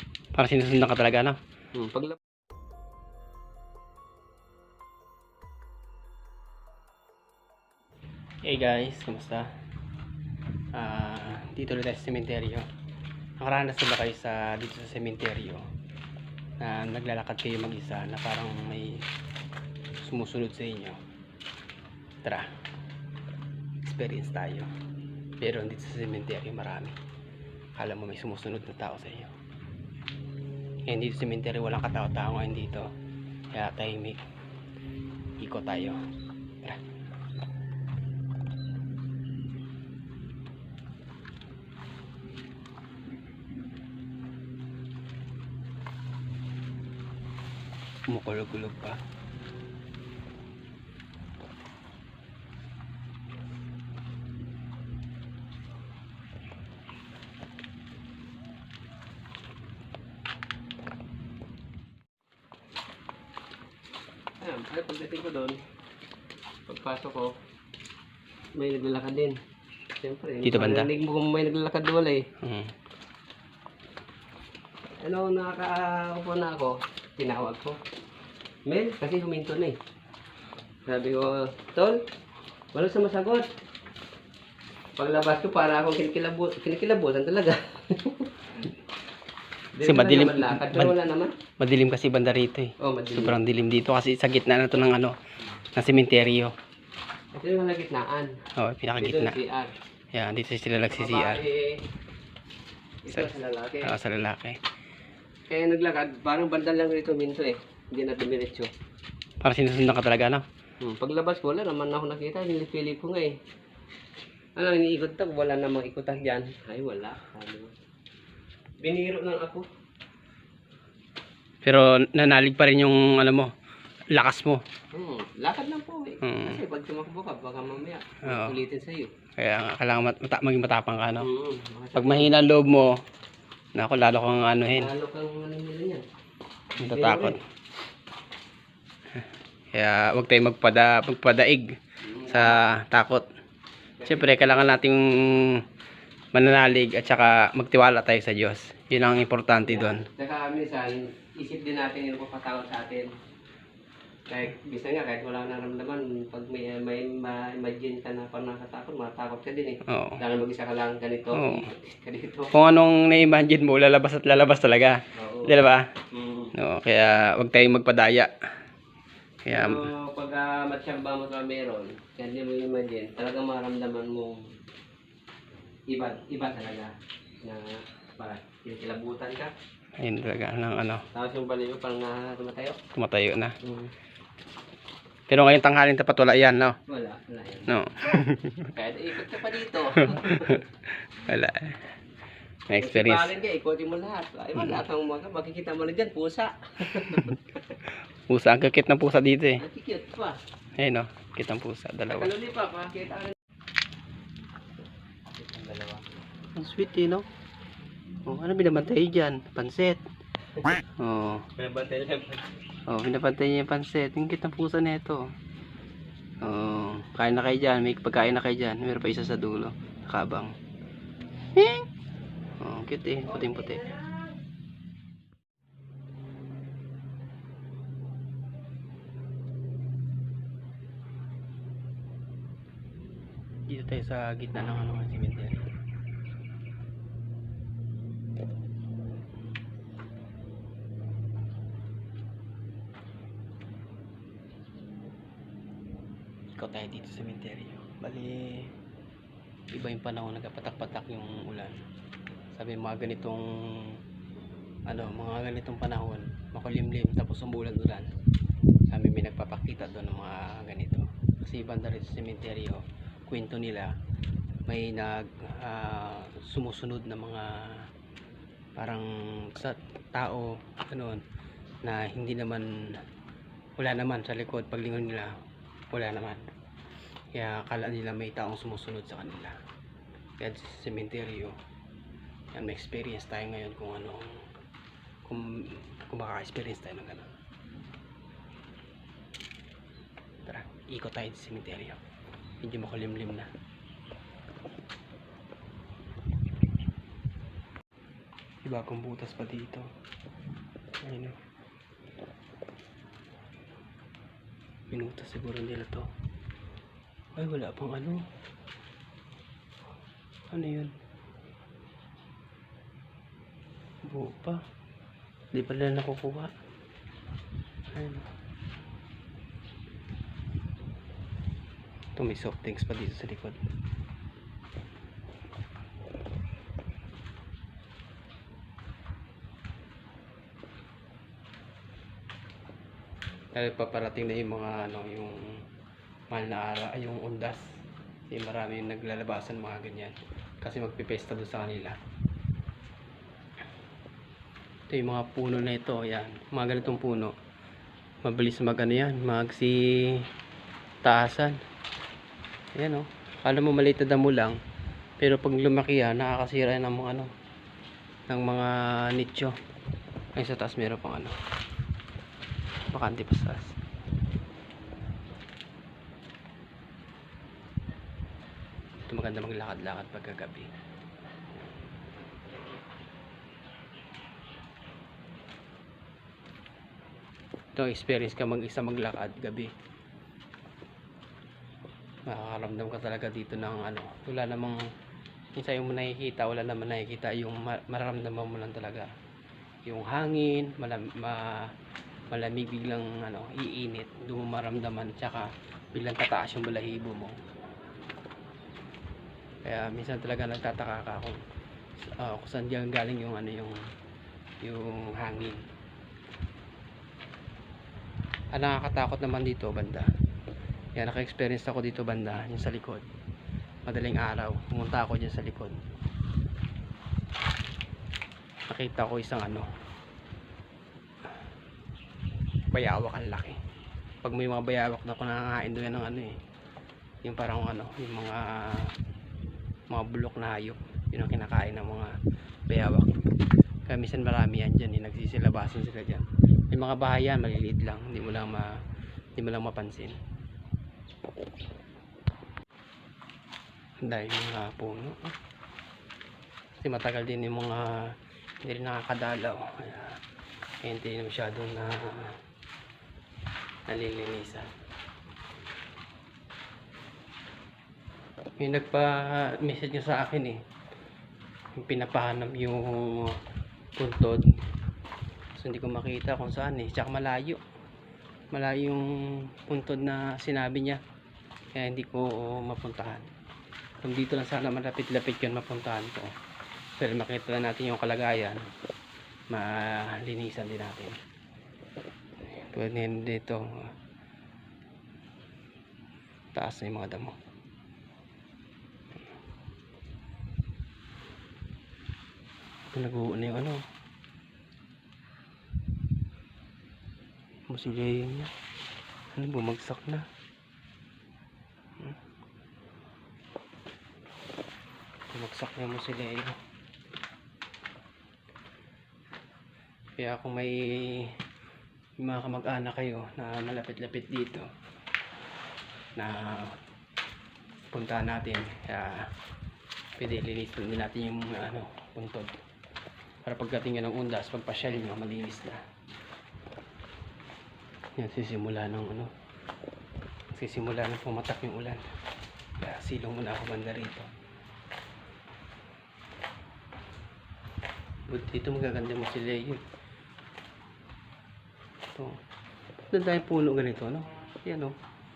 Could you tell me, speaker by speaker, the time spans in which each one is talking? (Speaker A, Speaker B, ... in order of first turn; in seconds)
Speaker A: 0.3-1.4, 8.4-9.5, 10.8-12.6, 13.4-15.6, 16.6-19.1, 20.0-21.0, 23.8-24.7, 25.4-26.9, 27.8-29.3, 30.9-32.9, 33.5-34.2, 35.4-36.0, 48.1-49.0, 70.4-70.9, 72.4-72.7, 89.8-91.0, 91.6-95.1, 95.8-96.5, 98.6-99.4, 100.1-101.4, 103.1-104.6, 109.4-110.5, 121.6-123.5, 124.1-124.6, 126.2-126.6, 128.2-128.6, 129.4-131.3, 131.9-133.0, 133.7-134.9, 136.8-137.4, 139.2-141.7, 142.3-143.2, 144.0-145.6, 146.3-150.1, 159.8-160.2, 161.3-161.7, 162.5-165.9, 166.5-168.3, 169.4-169.9, 180.0-181.0, 182.9-183.6, 185.3-186.8, 187.7-188.7, 190.0-191.8, 192.7-193.3, 194.6-194.8, 198.3-199.6, 200.8-202.3, 206.6-207.2, 208.2-210.0, 211.0-211.5, 212.9-215.3, 216.4-220.5, 221.5-221.9, 222.6-223.9, 233.7-235.7, 246.6-248.7, 249.7-251.8, 252.5-254.0, 254.9-258.1, 258.9-263.9, 264.7-267.9, 268.8-271.2, 271.8-273.0, 273.8-275.3, 275.9-276.4, 277.3-279.6, 280.4-281.5, 282.5-284.5, 285.2-287.3, 290.4-292.0, 292.6-293.5, 298.6-299.9, 301.0-301.4, 304.9-306.1, 307.4-308.3, 310.5-310.9, 314.0-314.6, 315.5-316.5, 317.9-318.3, 322.2-323.6, 333.5-335.6, 336.3-337.7, 338.3-342.0, 344.9-347.3, 348.2-350.3, 351.0-351.6, 352.8-354.6, 355.2-357.3, 358.3-359.5, 360.4-361.4, 362.9-363.8, 369.1-370.7, 377.8-379.7, 382.3-384.8, 385.6-389.1, 389.8-391.7, 392.3-397.4, 399.6-401.4, 402.0-403.8, 404.6-405.6, 408.5-410.1, 410.9-413.0, 413.9-415.8, 418.7-419.7, 422.7-423.6, 424.2-426.3, 427.2-428.9, 429.9-432.1, 432.7-433.2, 433.9-438.8, 439.4-440.2, 444.0-445.3, 446.8-450.2, 450.8-452.4, 453.9-454.7, 458.6-460.6, 461.8-463.4, 464.0-464.4, 465.6-467.6, 468.5-471.0, 471.8-473.3, 474.0-476.3, 477.0-478.6, 479.5-481.2, 482.6-483.9, 486.5-487.3, 492.9-493.8, 497.7-498.5, 499.3-500.2, 505.3-506.6, 510.2-511.3, 512.2-514.6, 516.1-516.7, 517.9-519.2, 520.2-522.5, 523.4-525.8, 528.2-529.3, 530.5-532.0, 532.8-534.3, 538.3-539.8, 543.1-545.0
Speaker B: 1.8-2.2, 64.4-65.6, 66.7-67.3, 68.6-69.4, 70.0-72.2, 75.0-77.8, 78.7-79.8, 80.9-82.0, 82.7-83.5, 85.0-88.3, 89.8-91.4, 92.8-93.4, 97.3-98.3, 99.0-99.7, 100.9-101.8, 103.0-104.0, 105.5-108.7, 110.8-113.4, 114.6-117.7, 118.8-119.7, 124.9-129.1, 131.2-132.3, 134.7-136.0, 136.8-137.4, 142.0-142.6, 144.0-144.6, 149.7-153.1, 154.3-162.6, 165.2-165.6, 166.1-166.5, 169.5-174.4, 175.9-176.9, 177.4-179.5, 181.1-182.8, 183.6-183.9, 186.9-187.7, 188.7-190.6, 192.8-197.8, 199.6-200.4, 202.1-203.3, 205.4-206.0, 211.6-212.4